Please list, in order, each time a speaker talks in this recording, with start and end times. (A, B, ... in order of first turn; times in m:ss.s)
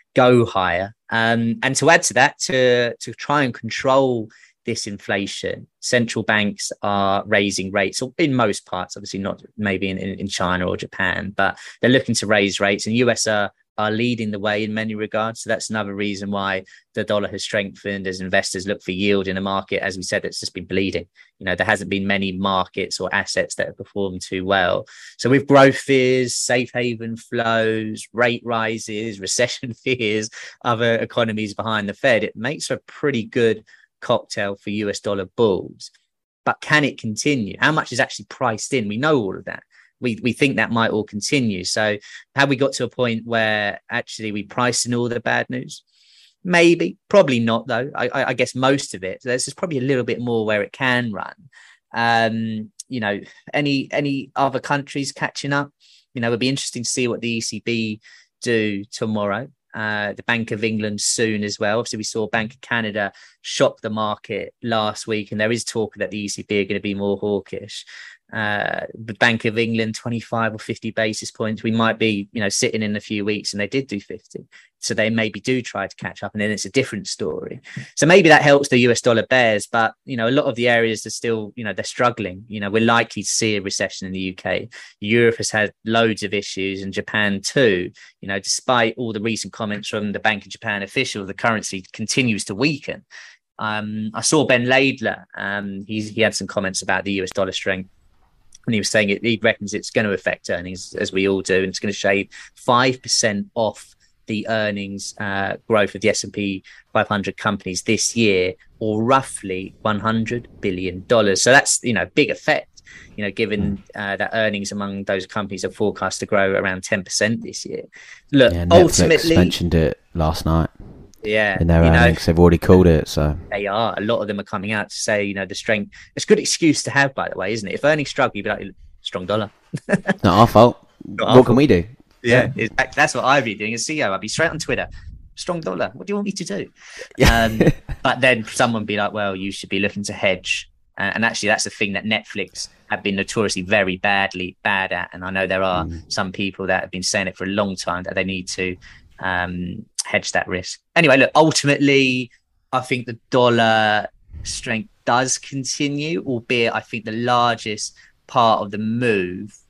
0:00.1-0:35.9 A
0:36.4-0:45.8 A
0:46.4-1:33.0 A
1:33.6-1:37.9 A
1:38.7-1:59.6 A
1:58.5-2:00.7 B
2:01.2-2:02.2 A
2:01.6-2:03.4 B
2:03.5-2:10.2 A
2:10.2-2:12.5 B
2:11.2-2:11.6 A
2:12.2-2:39.6 A
2:17.2-2:17.7 B